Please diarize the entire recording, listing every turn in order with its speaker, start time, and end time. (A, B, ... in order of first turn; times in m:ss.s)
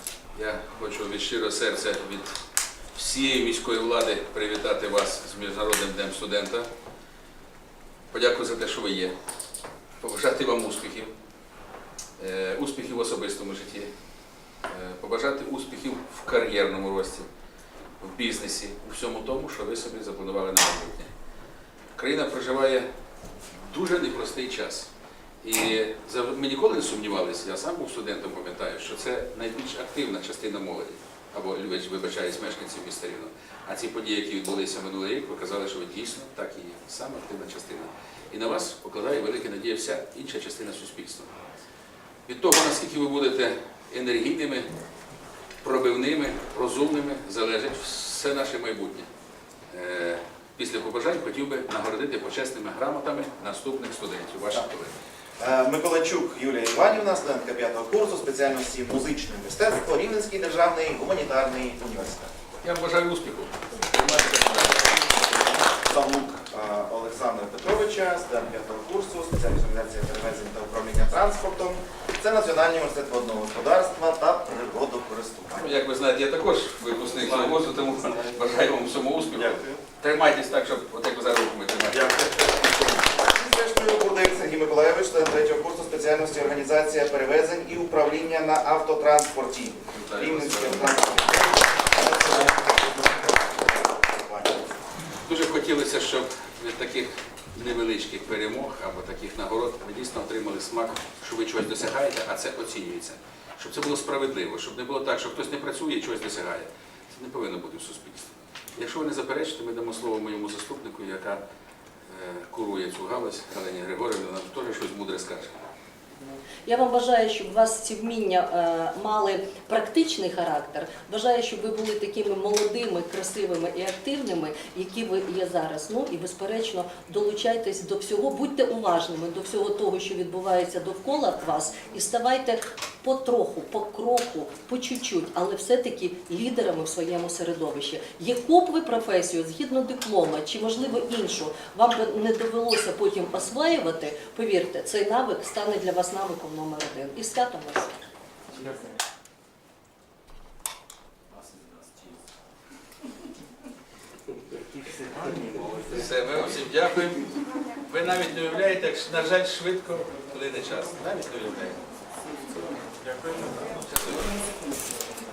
0:00.3-0:02.4 A
0:03.0-0:06.7 A
0:08.1-0:09.2 A
0:10.0-0:11.1 A
0:12.2-0:13.9 A
0:14.7-0:17.3 A
0:18.0-0:21.1 A
0:22.0-0:22.9 A
0:23.6-0:24.9 A
0:25.4-0:41.3 A
0:42.3-0:44.7 A
0:45.6-0:49.1 A
0:49.7-0:54.9 A
0:55.4-1:02.3 B
1:02.6-1:05.1 A
1:05.3-1:15.7 B
1:15.6-1:22.2 A
1:19.4-1:19.8 B
1:21.9-1:34.7 B
1:29.9-1:30.9 A
1:35.2-1:51.4 A
1:52.1-1:55.6 A
1:56.6-2:27.9 C
2:35.9-2:41.8 A
2:43.8-2:44.3 A